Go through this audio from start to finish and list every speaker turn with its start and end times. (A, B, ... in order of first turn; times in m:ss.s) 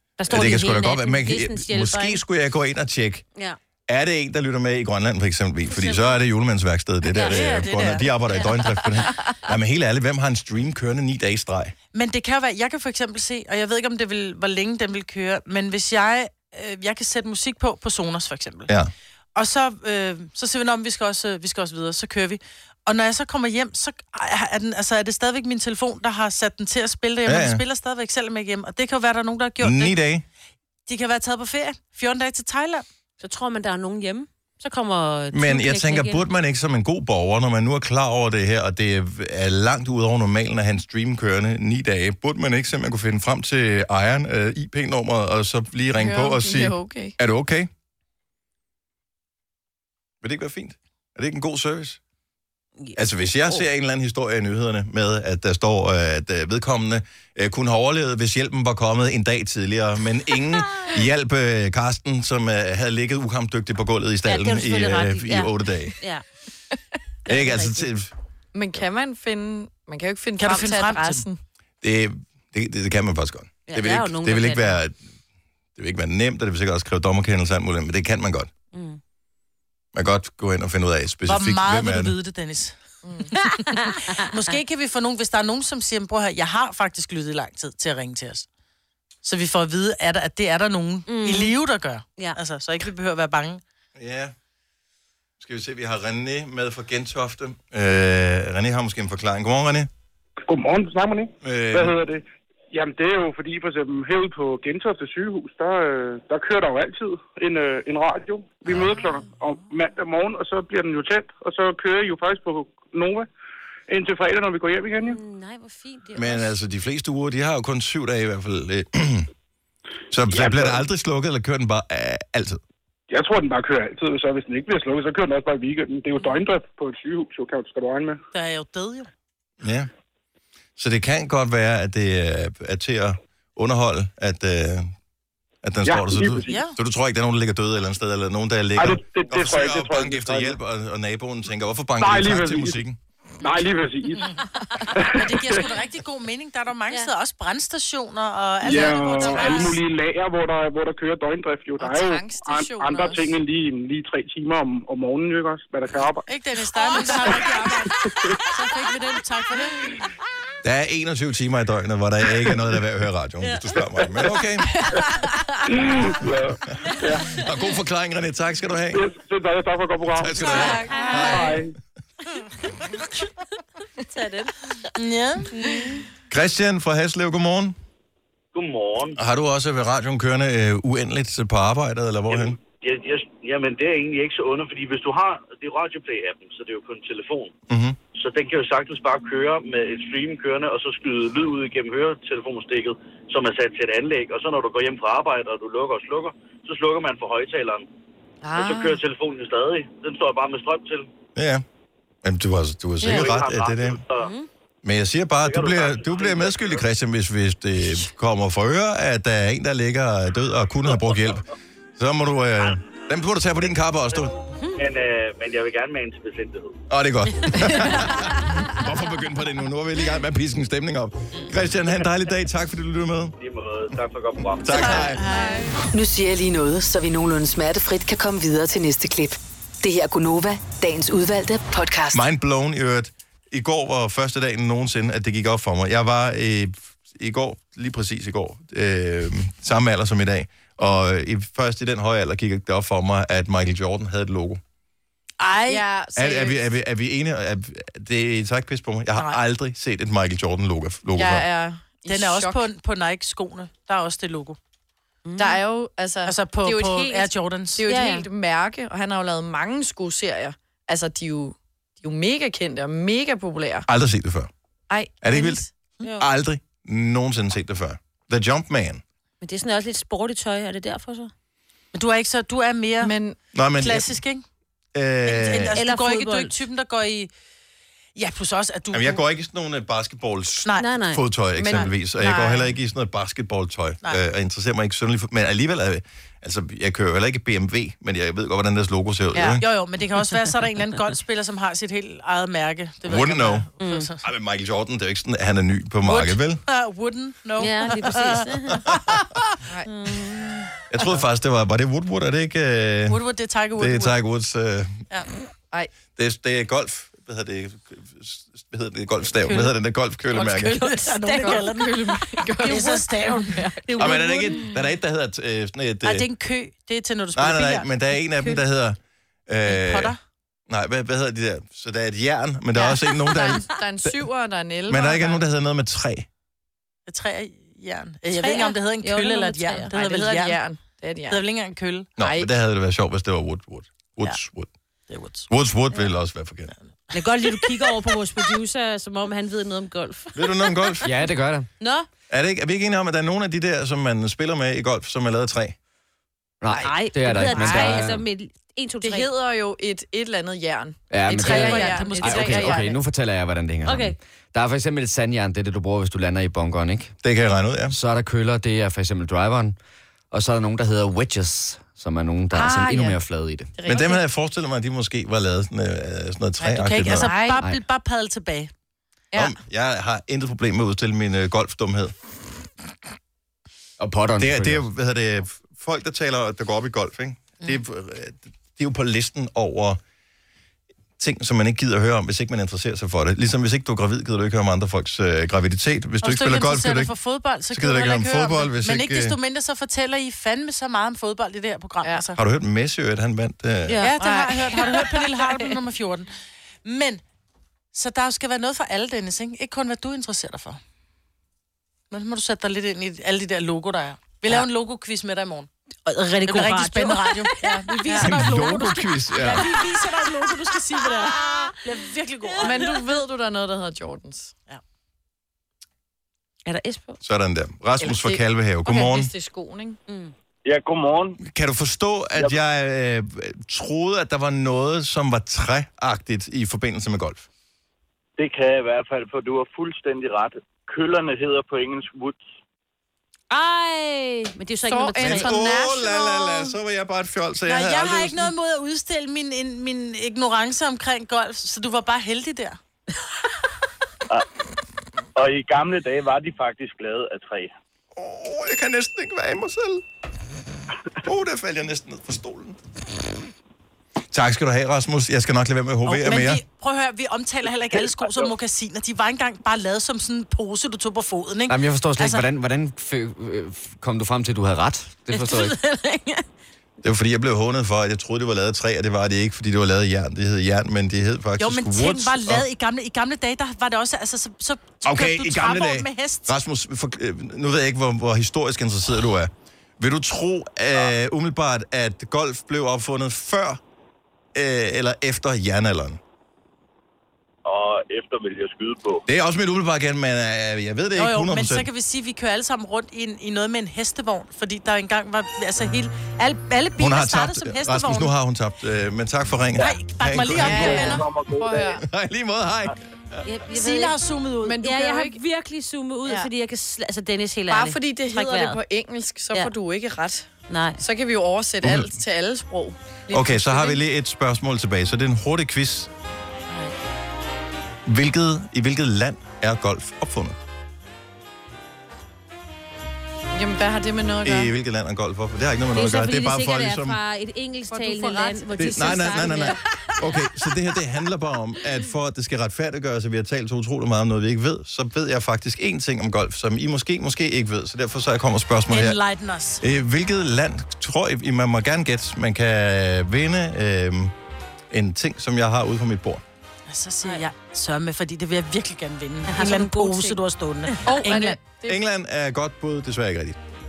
0:00.2-0:02.2 A
0:00.3-0:03.2 B
0:03.9-0:11.8 B
0:05.7-0:06.2 A
0:07.1-0:08.1 C
0:11.9-0:18.7 C
0:19.4-0:30.0 C
0:27.3-0:27.6 B
0:29.6-0:30.2 B
0:30.9-0:32.8 C
0:33.2-0:36.2 A
0:35.3-0:47.7 B
0:45.9-0:47.1 D
0:50.2-0:52.0 B
0:52.8-0:53.6 A
0:53.0-1:06.0 B
1:00.6-1:01.0 A
1:04.3-1:06.2 A
1:07.3-1:07.9 A
1:07.3-1:08.1 B
1:08.5-1:11.4 D
1:10.4-1:11.2 C
1:11.8-1:15.0 B
1:13.7-1:14.8 A
1:15.8-1:18.5 B
1:18.7-1:19.0 A
1:19.9-1:22.1 B
1:21.3-1:22.8 C
1:23.0-1:23.3 D
1:23.3-1:28.5 C
1:23.4-1:24.2 A
1:29.2-1:33.6 C
1:31.1-1:31.5 A
1:34.0-1:34.3 B
1:35.4-1:39.9 B
1:40.5-1:53.3 E
1:41.4-1:42.0 B
1:48.7-1:49.0 B
1:53.9-1:55.2 E
1:55.0-1:56.6 A
1:56.2-1:59.3 B
2:00.1-2:02.6 B
2:00.3-2:00.8 E
2:03.1-2:08.2 E
2:08.3-2:09.1 C
2:09.6-2:09.9 B
2:10.8-2:14.9 B
2:15.6-2:23.0 B
2:15.8-2:16.6 E
2:16.5-2:16.8 C
2:18.8-2:20.6 E
2:22.0-2:22.8 E
2:23.4-2:24.3 E
2:24.9-2:25.7 E
2:25.1-2:29.8 C
2:28.6-2:36.3 E
2:28.8-2:29.7 D
2:31.8-2:33.4 D
2:36.3-2:39.8 C
2:36.9-2:37.4 D
2:37.2-2:38.4 E
2:40.6-2:44.8 B
2:44.9-2:45.3 D
2:45.7-2:47.3 E
2:47.3-2:49.1 B
2:48.9-2:51.8 E
2:50.2-2:51.6 B
2:50.5-2:51.5 D
2:50.9-2:51.5 A
2:54.1-2:54.5 A
2:55.0-2:55.5 C
2:55.6-2:55.9 A
2:56.3-2:57.8 B
2:58.5-2:59.2 F
2:59.2-3:02.6 B
3:02.3-3:07.5 F
3:07.7-3:08.0 B
3:08.1-3:17.9 F
3:18.4-3:19.0 D
3:18.5-3:21.1 F
3:21.4-3:21.6 B
3:22.2-3:24.0 B
3:23.0-3:23.3 D
3:23.0-3:24.3 F
3:24.2-3:24.5 A
3:24.8-3:34.3 B
3:25.4-3:26.8 F
3:34.8-3:36.8 F
3:36.9-3:43.4 B
3:43.4-3:45.1 F
3:44.6-3:45.2 B
3:44.7-3:45.8 D
3:44.8-3:45.8 C
3:45.9-3:52.2 G
3:52.1-4:04.6 B
4:05.4-4:05.8 C
4:05.7-4:06.6 D
4:06.2-4:11.5 B
4:11.2-4:12.6 D
4:12.1-4:14.6 C
4:15.2-4:15.6 A
4:15.4-4:23.9 D
4:16.2-4:17.9 C
4:17.9-4:18.3 A
4:23.9-4:24.5 B
4:24.9-4:25.7 D
4:25.2-4:25.6 B
4:26.2-4:29.0 B
4:29.4-4:31.3 A
4:31.9-4:33.1 C
4:33.0-4:33.4 D
4:33.5-4:34.2 B
4:33.8-4:34.4 C
4:34.9-4:35.8 B
4:35.3-4:37.3 C
4:35.6-4:36.6 A
4:38.1-4:39.2 C
4:38.9-4:49.6 B
4:40.6-4:40.9 C
4:40.8-4:41.2 A
4:41.6-4:42.7 D
4:49.3-4:49.6 D
4:49.6-4:54.2 C
4:53.0-4:53.7 B
4:53.8-4:54.1 A
4:54.2-4:56.6 B
4:56.0-4:59.4 C
4:57.6-4:59.0 A
4:59.9-5:00.7 A
5:00.9-5:03.2 B
5:03.1-5:04.2 C
5:03.8-5:05.0 B
5:06.1-5:10.8 B
5:09.4-5:09.7 C
5:10.3-5:14.1 D
5:10.6-5:13.7 C
5:12.6-5:13.0 A
5:13.8-5:14.7 A
5:14.0-5:16.3 B
5:16.0-5:17.9 C
5:17.4-5:20.1 B
5:19.7-5:20.2 C
5:20.7-5:24.2 B
5:23.2-5:25.4 D
5:24.9-5:26.3 B
5:27.1-5:30.6 C
5:28.3-5:30.0 A
5:30.0-5:31.4 D
5:31.3-5:32.1 C
5:32.2-5:32.5 D
5:32.2-5:34.7 B
5:35.1-5:35.5 C
5:35.5-5:36.7 B
5:37.1-5:38.1 C
5:37.1-5:41.1 A
5:40.4-5:41.1 B
5:41.0-5:41.7 H
5:41.8-5:42.1 A
5:42.3-5:45.8 B
5:46.6-5:48.2 H
5:46.7-5:48.2 D
5:46.8-5:49.3 A
5:49.0-5:53.0 D
5:51.1-5:57.1 H
5:51.3-5:52.9 C
5:51.5-5:52.1 A
5:53.8-5:54.2 A
5:57.2-5:58.0 B
5:57.9-5:59.8 H
6:00.3-6:03.8 H
6:02.5-6:03.2 D
6:03.8-6:04.2 D
6:03.9-6:07.3 B
6:06.6-6:08.7 C
6:07.2-6:07.6 D
6:09.4-6:12.1 B
6:14.0-6:14.9 H
6:14.4-6:20.0 B
6:21.2-6:27.1 B
6:26.2-6:32.4 C
6:27.7-6:29.4 B
6:32.4-6:34.0 B
6:33.9-6:34.2 A
6:34.0-6:36.3 C
6:34.2-6:35.7 D
6:36.8-6:37.2 C
6:37.9-6:40.8 C
6:42.1-6:45.7 C
6:46.1-6:48.6 A
6:46.4-6:53.0 C
6:48.2-6:49.7 B
6:52.6-6:54.5 D
6:56.6-6:57.2 A
6:57.2-6:59.3 B
6:58.0-7:00.0 D
7:00.1-7:00.3 A
7:00.6-7:01.4 F
7:01.4-7:07.5 B
7:08.4-7:12.4 F
7:13.5-7:15.6 A
7:14.8-7:16.8 D
7:15.2-7:18.5 B
7:17.6-7:22.8 C
7:25.4-7:27.7 F
7:28.2-7:30.0 B
7:31.2-7:32.8 B
7:34.3-7:36.6 B
7:36.0-7:42.5 C
7:41.7-7:45.8 H
7:45.3-7:45.8 C
7:45.6-7:46.4 A
7:47.0-7:52.7 B
7:51.6-7:56.5 C
7:55.0-8:03.8 B
8:04.6-8:06.2 B
8:07.6-8:09.2 F
8:09.3-8:11.9 B
8:11.2-8:18.3 C
8:17.0-8:21.3 B
8:19.8-8:21.2 C
8:20.5-8:22.0 D
8:21.1-8:21.9 F
8:22.0-8:23.4 B
8:23.4-8:24.2 A
8:23.7-8:24.9 C
8:24.6-8:25.4 D
8:24.8-8:28.8 A
8:27.7-8:30.5 D
8:30.7-8:31.0 A
8:31.0-8:34.0 D
8:31.8-8:32.1 B
8:33.3-8:36.1 B
8:38.1-8:40.6 B
8:43.6-8:44.7 D
8:44.4-8:47.2 B
8:45.9-8:49.8 A
8:47.9-8:49.8 D
8:48.8-8:59.2 B
8:58.9-8:59.8 C
8:59.8-9:04.3 B
9:04.9-9:06.4 B
9:06.9-9:11.6 C
9:09.5-9:10.4 A
9:11.0-9:11.3 A
9:11.0-9:12.0 D
9:11.9-9:13.6 B